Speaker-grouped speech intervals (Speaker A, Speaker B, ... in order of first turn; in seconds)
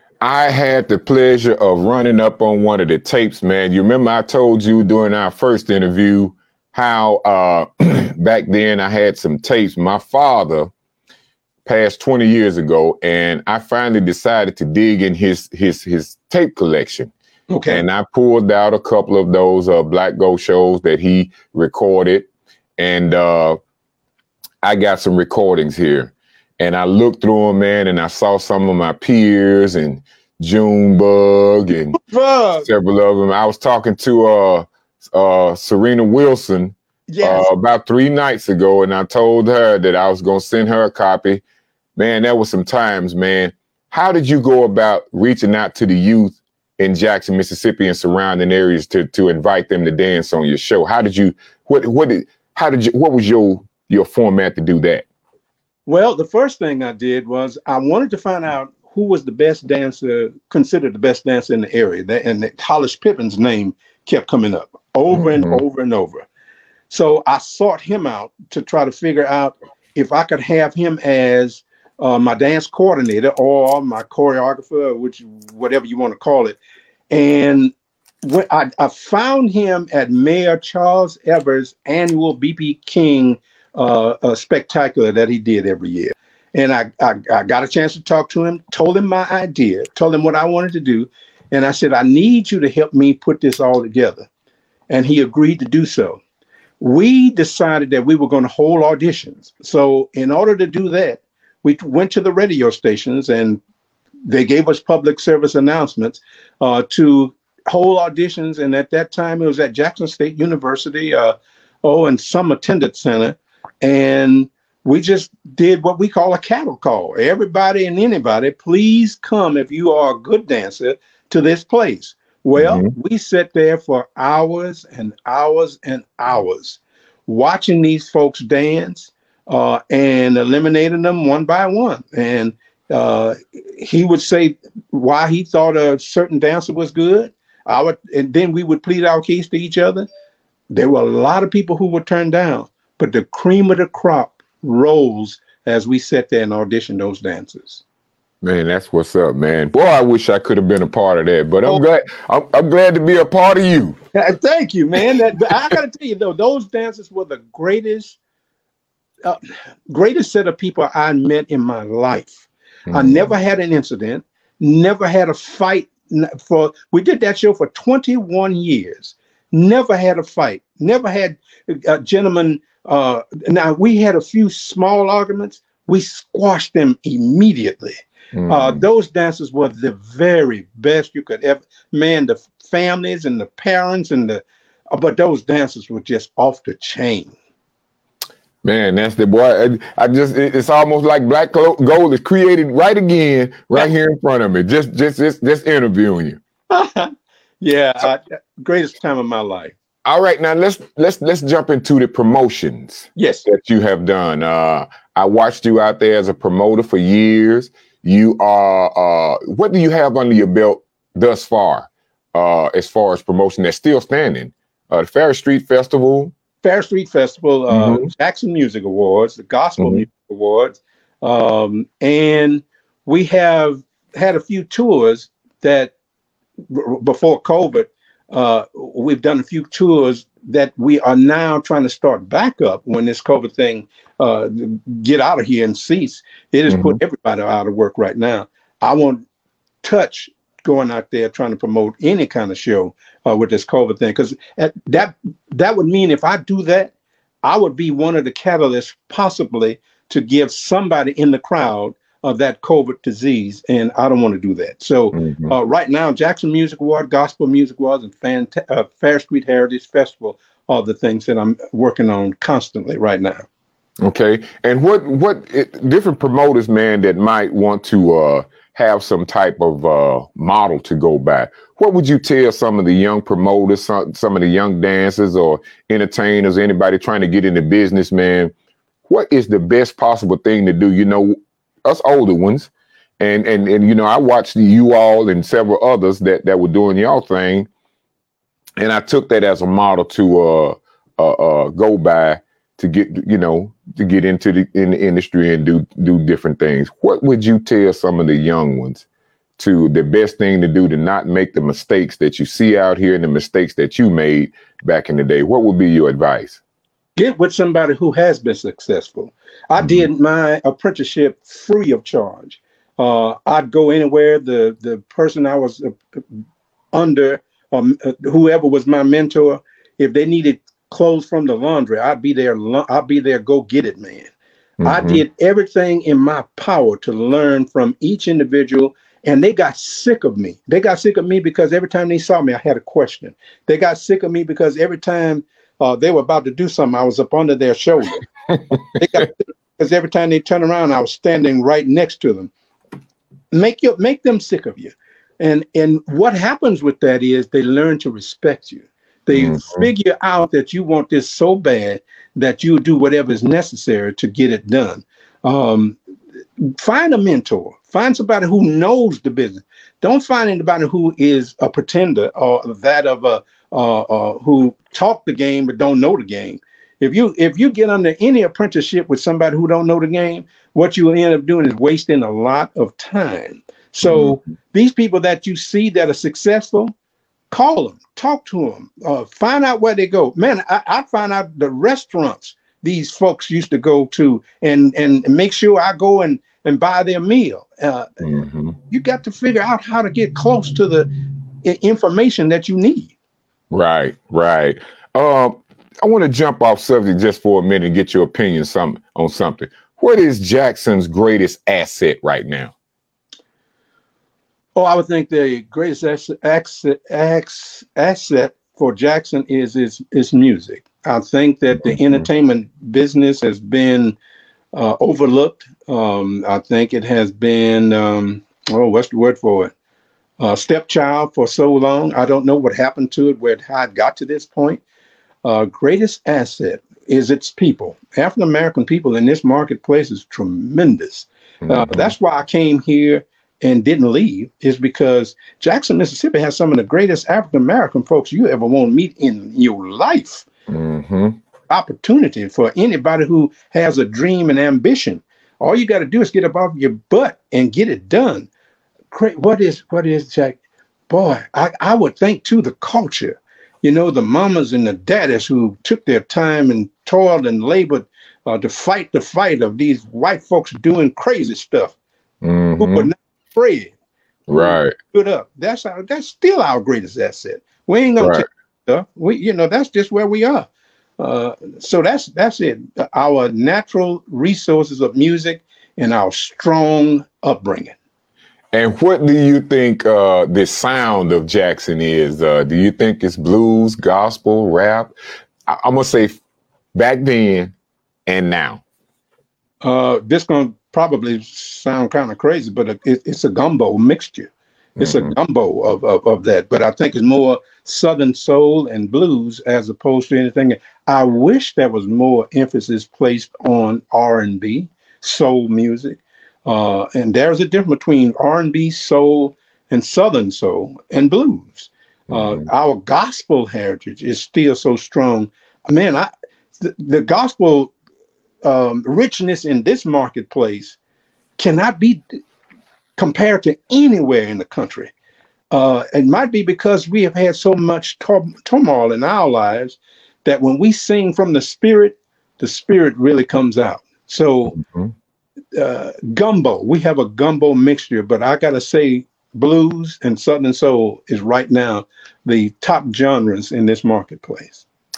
Speaker A: 0.2-10.7, 11.7-17.1, 17.7-23.6, 24.6-32.0, 32.6-41.4, 42.0-55.0, 65.1-65.6, 122.6-122.9, 148.4-154.0, 162.9-163.3, 178.3-178.8, 188.6-196.4, 200.0-216.3, 217.7-218.1, 236.7-237.0, 255.1-255.5, 264.0-278.5, 279.1-287.7, 288.8-299.0, 299.6-306.6, 309.8-310.1, 324.8-325.2, 349.3-349.9, 374.0-374.4, 388.2-388.8, 393.7-402.7, 411.8-412.2, 431.6-432.1, 440.7-441.4, 462.4-463.1, 464.5-464.9, 468.2-468.4, 478.7-485.1, 485.7-486.4, 486.9-487.7, 488.3-488.8, 495.0-495.3, 512.3-512.6, 534.8-535.1
Speaker B: 17.5-17.8, 31.9-32.7, 37.1-37.5, 55.9-66.2, 66.9-76.6, 77.1-94.3, 94.9-96.2, 96.8-103.6, 104.2-140.1, 140.7-147.8, 154.1-158.2, 159.2-187.3, 196.7-199.7, 203.2-203.4, 216.6-225.9, 226.7-239.2, 239.8-246.9, 247.4-263.4, 307.1-316.4, 316.9-324.3, 324.8-338.2, 338.9-342.5, 343.5-356.0, 356.6-376.9, 377.5-388.2, 388.9-391.1, 391.6-393.1, 404.7-414.1, 414.7-419.7, 420.4-424.8, 425.4-440.4, 441.7-448.5, 449.1-461.9, 462.8-463.9, 464.5-470.7, 471.2-477.9, 489.8-517.9, 518.6-521.0, 521.6-522.4, 523.2-525.1, 525.7-534.8, 535.7-544.8